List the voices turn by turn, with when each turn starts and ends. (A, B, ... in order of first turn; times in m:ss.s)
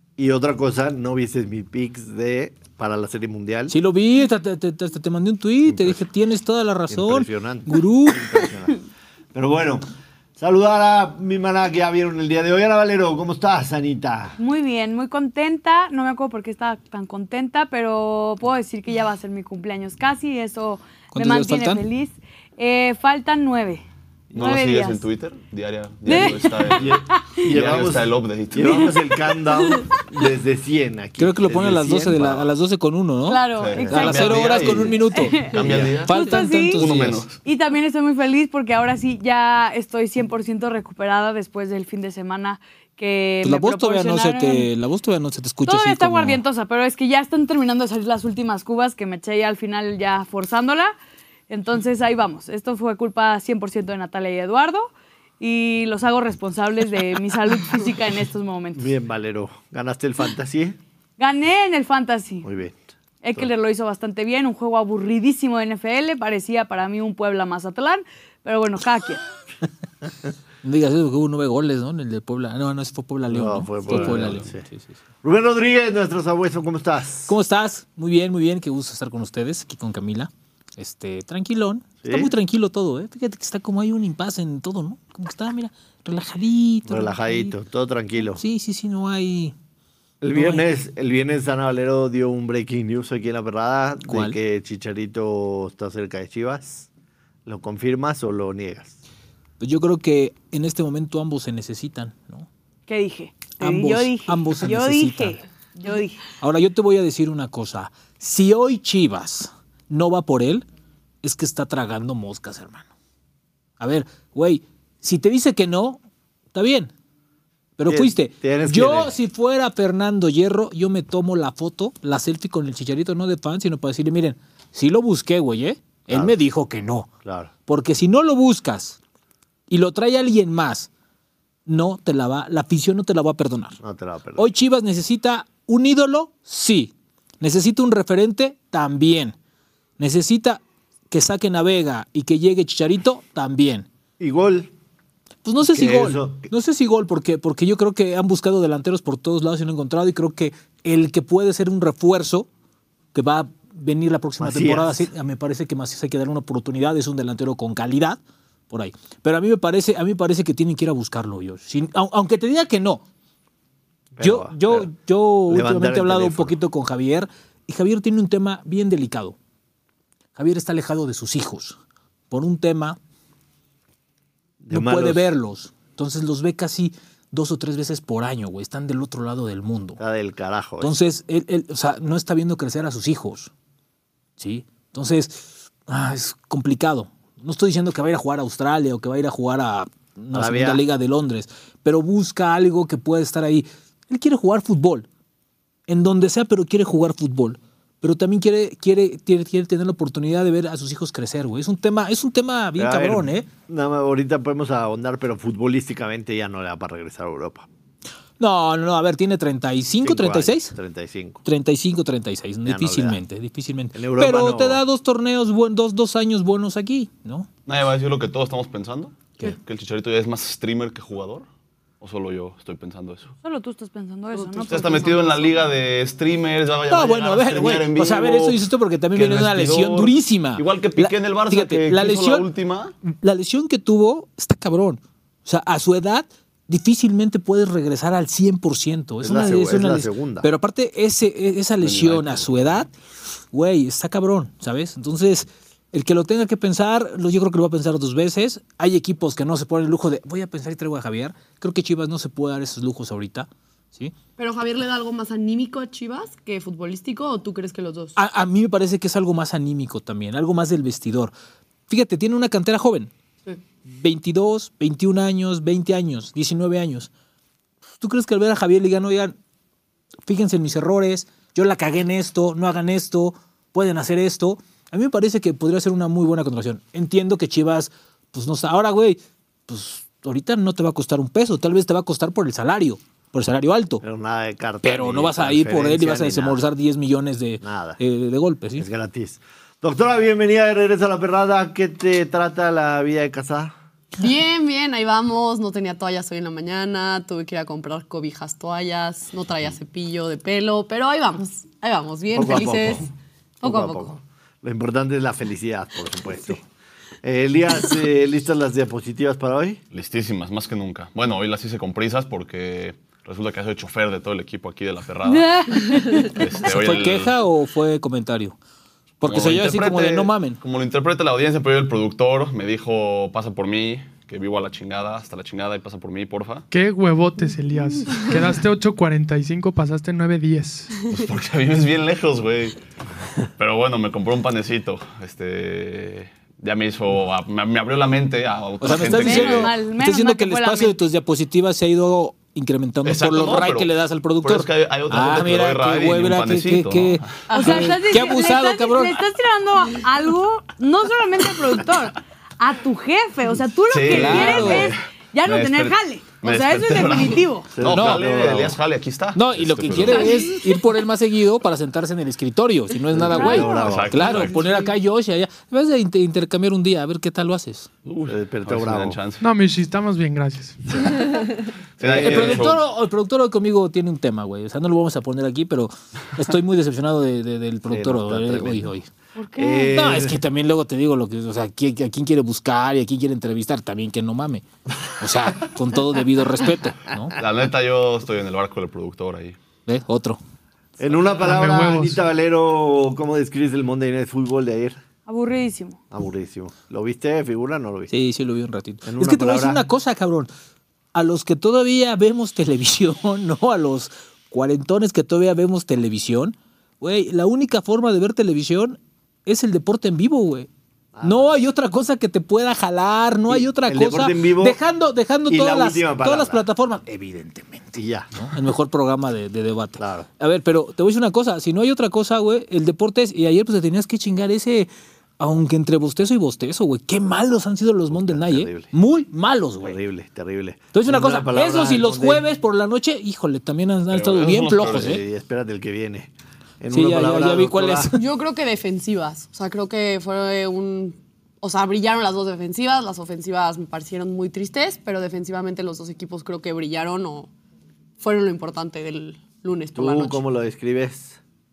0:00.2-0:03.8 A
0:03.7-0:08.5 B
0:05.6-0:06.0 A
0:06.9-0:08.8 A
0:09.3-0:09.9 A
0:10.4-0:14.4 A
0:14.4-0:25.0 C
0:21.1-0:21.8 B
0:24.3-0:29.2 D
0:26.1-0:27.4 C
0:26.1-0:32.5 A
0:29.7-0:30.0 C
0:31.2-0:35.5 B
0:33.3-0:36.9 C
0:33.6-0:37.4 D
0:33.8-0:34.9 A
0:35.5-0:36.0 A
0:36.0-0:37.2 B
0:37.4-0:44.7 C
0:43.4-0:46.4 B
0:45.6-0:50.9 C
0:51.5-0:58.9 C
0:58.8-1:00.8 A
1:01.2-1:02.5 C
1:02.4-1:02.8 A
1:03.2-1:09.2 C
1:10.6-1:15.0 B
1:13.3-1:14.7 A
1:13.9-1:14.5 D
1:15.2-1:17.4 A
1:17.3-1:27.5 B
1:22.0-1:22.3 A
1:26.9-1:28.4 A
1:28.2-1:29.6 B
1:30.2-1:36.9 A
1:30.3-1:30.6 B
1:34.1-1:34.4 B
1:37.5-1:39.0 A
1:39.6-1:42.5 B
1:42.9-1:46.2 C
1:43.6-1:45.4 B
1:46.4-1:50.7 B
1:51.2-1:52.9 B
1:53.8-1:56.0 B
1:56.5-1:56.9 B
1:57.8-2:07.1 B
1:57.9-1:59.2 A
2:06.1-2:06.4 A
2:07.2-2:07.5 A
2:07.7-2:09.0 B
2:09.7-2:10.9 B
2:11.7-2:13.8 B
2:13.8-2:14.5 A
2:14.4-2:19.4 B
2:20.0-2:23.9 B
2:24.2-2:24.7 A
2:25.4-2:32.5 B
2:25.6-2:26.5 A
2:33.1-2:43.0 B
2:34.4-2:35.1 A
2:44.2-2:44.9 A
2:44.2-2:49.4 B
2:45.5-2:46.6 A
2:50.4-2:51.8 B
2:52.3-2:53.0 B
2:54.6-2:55.3 A
2:54.7-3:00.0 B
3:00.0-3:01.0 A
3:00.8-3:03.5 B
3:04.4-3:15.1 B
3:10.3-3:10.8 A
3:15.9-3:23.5 B
3:22.8-3:27.7 A
3:28.4-3:30.8 B
3:30.0-3:31.4 A
3:31.4-3:37.5 B
3:32.6-3:33.2 A
3:33.9-3:34.8 A
3:37.7-3:41.5 D
3:42.0-3:43.3 D
3:43.4-3:45.5 C
3:44.3-3:45.6 E
3:44.7-3:48.6 D
3:46.9-3:52.5 B
3:49.1-3:52.9 D
3:53.0-4:02.9 B
3:59.2-4:00.5 A
4:01.8-4:02.9 D
4:03.5-4:14.1 B
4:14.4-4:18.2 E
4:18.2-4:21.3 B
4:21.9-4:23.1 B
4:23.9-4:27.1 B
4:28.0-4:29.4 B
4:30.3-4:44.0 B
4:44.0-4:46.6 A
4:44.8-4:48.9 B
4:47.6-4:48.0 A
4:48.8-4:53.8 A
4:54.2-5:03.1 E
5:02.3-5:06.6 A
5:03.6-5:04.2 E
5:07.2-5:09.8 A
5:09.9-5:17.3 D
5:15.3-5:16.4 C
5:16.6-5:18.6 B
5:19.2-5:20.6 B
5:19.2-5:26.7 D
5:26.7-5:30.9 F
5:31.1-5:32.8 D
5:33.6-5:39.7 D
5:38.8-5:49.2 B
5:39.0-5:41.0 C
5:43.0-5:43.9 D
5:44.4-5:47.6 D
5:47.5-5:57.8 C
5:53.9-6:00.4 D
5:54.1-5:54.9 B
5:57.7-5:58.8 A
5:57.8-5:58.2 B
5:59.4-6:07.9 B
6:00.1-6:00.8 C
6:03.1-6:04.6 A
6:03.3-6:03.9 C
6:03.8-6:04.7 D
6:08.0-6:09.4 D
6:08.3-6:09.2 A
6:09.4-6:11.3 F
6:12.0-6:12.8 D
6:12.0-6:12.8 A
6:12.2-6:19.1 B
6:17.9-6:18.9 A
6:19.4-6:20.0 C
6:19.6-6:20.4 A
6:19.8-6:27.3 B
6:27.4-6:29.6 D
6:29.9-6:30.4 B
6:31.0-6:35.0 A
6:31.4-6:32.2 F
6:35.3-6:36.0 C
6:36.1-6:38.1 A
6:38.1-6:40.5 B
6:39.0-6:39.8 A
6:41.1-6:50.7 B
6:51.1-6:51.5 A
6:51.2-7:10.0 B
6:53.5-6:54.8 A
6:55.5-6:56.7 A
6:58.0-6:58.3 A
7:00.0-7:00.3 A
7:08.1-7:08.9 A
7:09.8-7:12.5 A
7:10.9-7:15.2 B
7:14.1-7:15.2 D
7:14.8-7:18.1 A
7:16.9-7:18.2 B
7:18.2-7:27.5 E
7:28.2-7:30.4 E
7:30.0-7:31.4 A